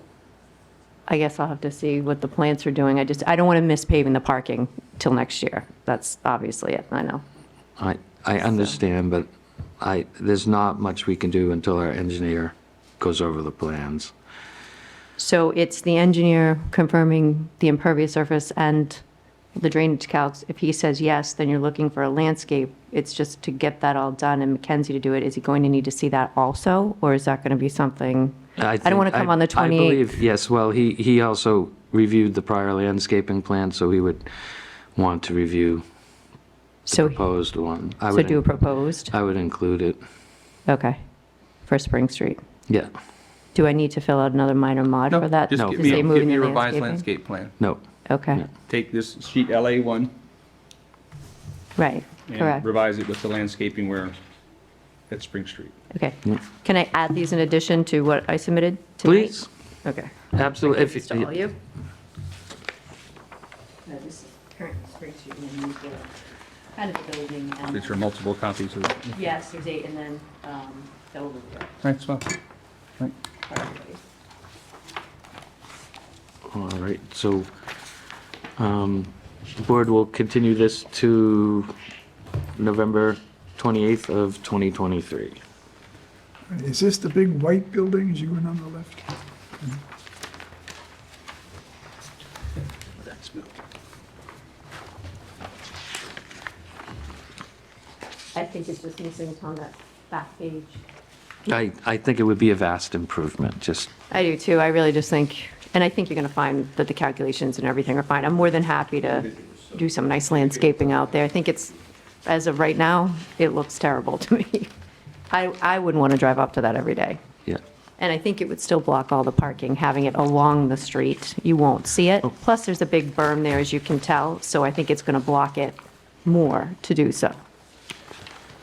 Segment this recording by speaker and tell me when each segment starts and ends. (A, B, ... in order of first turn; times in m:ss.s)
0:01.1-0:07.2 A
0:07.8-0:09.3 B
0:09.8-0:14.1 B
0:15.2-0:19.0 A
0:19.6-0:30.1 A
0:28.6-0:35.8 B
0:36.9-0:40.0 B
0:36.9-0:37.2 A
0:38.1-0:39.1 A
0:40.7-0:41.0 A
0:41.7-0:42.4 A
0:43.6-0:47.0 A
0:45.1-0:47.6 C
0:45.6-0:46.1 B
0:48.1-0:48.4 A
0:48.7-0:50.1 C
0:51.8-0:52.6 A
0:52.3-0:54.2 C
0:55.1-0:55.8 C
0:55.9-1:01.6 A
0:59.0-0:59.5 B
1:00.3-1:01.3 B
1:03.8-1:06.1 A
1:06.8-1:08.0 A
1:07.7-1:09.2 C
1:09.1-1:11.7 A
1:11.8-1:12.3 C
1:13.5-1:14.0 A
1:16.5-1:17.5 B
1:18.6-1:21.7 B
1:22.6-1:25.4 B
1:26.5-1:29.1 D
1:33.1-1:33.5 C
1:38.3-1:40.8 A
1:41.5-1:43.9 B
1:44.1-1:54.7 A
1:55.3-1:57.2 A
1:58.0-2:07.4 A